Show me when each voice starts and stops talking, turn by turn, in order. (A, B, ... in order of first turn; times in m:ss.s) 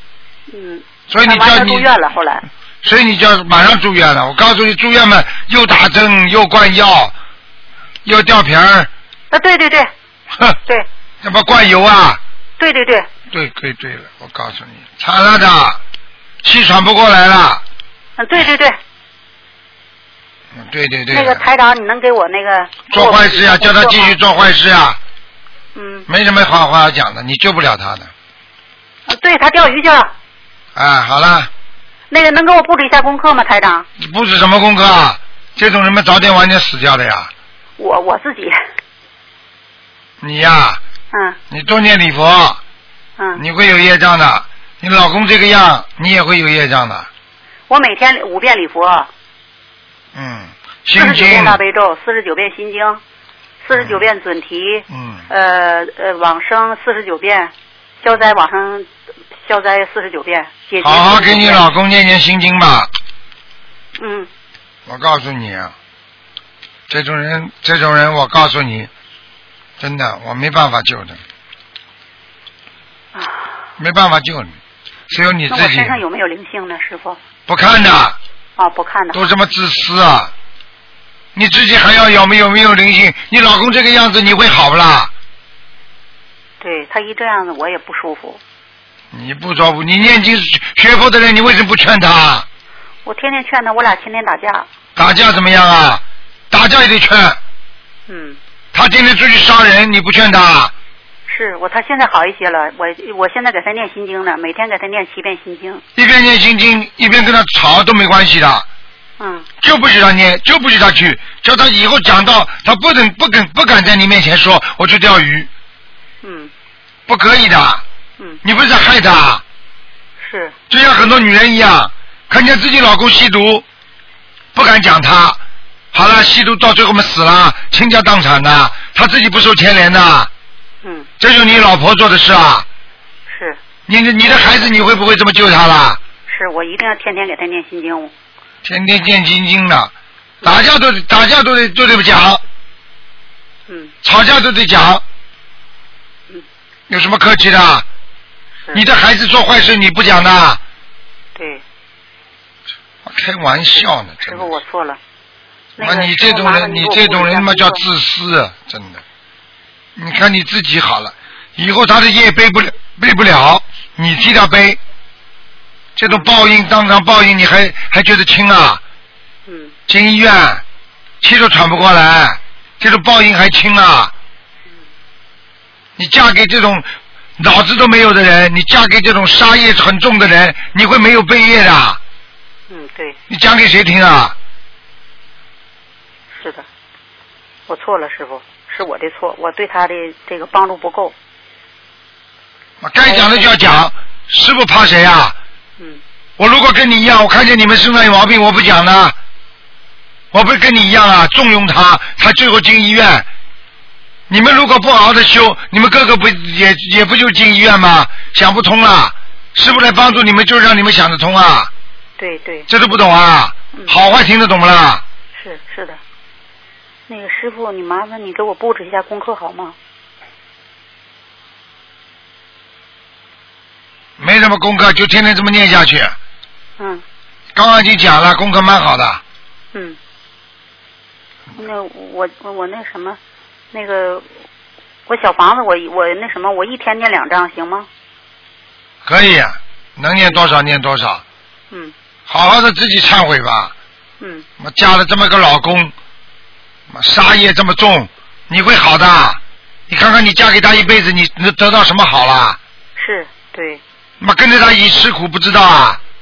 0:00.5-0:02.5 A
0:01.1-0:01.9 B
0:02.8-0:07.2 B
0:08.0-0:08.9 B
0:09.3-0:09.9 A
0:11.2-0:12.2 B
0:12.6-0:13.1 A
0:13.3-0:15.8 B
0:16.4-0:17.6 B
0:18.2-0:18.8 A
0:20.5-0:21.4 B
0:21.1-0:24.2 A
0:22.9-0:25.0 B
0:25.8-0:26.1 A
0:26.1-0:28.1 B
0:29.1-0:30.1 A
0:30.8-0:31.5 B
0:32.1-0:33.9 A
0:34.0-0:37.3 B
0:37.8-0:38.6 A
0:40.2-0:40.8 B
0:41.1-0:41.4 A
0:41.5-0:42.6 B
0:43.4-0:47.1 B
0:47.7-0:49.1 A
0:50.1-0:51.6 B
0:51.0-0:53.0 A
0:53.6-1:01.7 A
0:53.8-0:54.0 B
0:54.9-0:55.2 B
1:00.8-1:02.9 B
1:04.0-1:04.3 A
1:04.9-1:05.7 B
1:06.9-1:08.9 B
1:09.8-1:11.2 B
1:13.1-1:13.5 A
1:13.8-1:14.5 B
1:15.1-1:16.0 B
1:15.5-1:17.2 A
1:17.5-1:18.2 B
1:18.6-1:19.3 A
1:19.1-1:20.3 B
1:21.4-1:25.1 B
1:26.6-1:28.4 A
1:29.1-1:32.5 B
1:33.0-1:34.7 A
1:35.0-1:37.4 B
1:38.1-1:38.4 A
1:38.7-1:40.7 B
1:41.3-1:45.8 A
1:46.0-1:48.7 B
1:49.2-1:49.5 A
1:49.6-1:55.5 B
1:56.2-1:56.5 A
1:57.1-1:57.8 B
1:58.4-1:59.4 B
2:00.2-2:00.6 A
2:00.7-2:03.6 B
2:04.6-2:05.4 B
2:05.9-2:10.3 B
2:10.8-2:11.1 A
2:11.2-2:12.7 B
2:13.3-2:13.6 A
2:13.9-2:16.0 B
2:16.3-2:18.1 A
2:18.6-2:19.9 B
2:20.4-2:22.4 B
2:23.7-2:23.9 A
2:24.0-2:25.0 B
2:26.9-2:27.9 B
2:28.7-2:30.6 B
2:31.4-2:31.6 A
2:33.0-2:34.6 B
2:34.2-2:35.0 A
2:35.8-2:37.8 A
2:35.8-2:39.0 B
2:40.0-2:44.8 B
2:46.0-2:48.8 B
2:49.5-2:49.7 A
2:49.9-2:50.6 B
2:51.2-2:54.1 B
2:56.0-3:02.0 B
3:02.7-3:03.2 A
3:03.3-3:04.4 B
3:06.3-3:06.7 A
3:07.7-3:11.1 A
3:12.8-3:15.4 B
3:13.0-3:13.5 A
3:16.4-3:19.2 B
3:20.3-3:23.3 B
3:24.3-3:31.7 B
3:32.2-3:32.7 A
3:32.7-3:35.0 B
3:35.4-3:36.0 A
3:37.1-3:39.8 A
3:44.2-3:46.2 B
3:46.8-3:47.0 A
3:47.6-3:49.2 B
3:49.7-3:50.0 A
3:51.6-3:53.2 A
3:53.7-3:54.3 A
3:55.1-3:57.9 A
3:59.0-4:01.2 B
4:02.3-4:03.7 B
4:04.2-4:04.5 A
4:04.6-4:05.9 B
4:06.9-4:12.6 B
4:13.0-4:13.8 A
4:14.2-4:16.0 B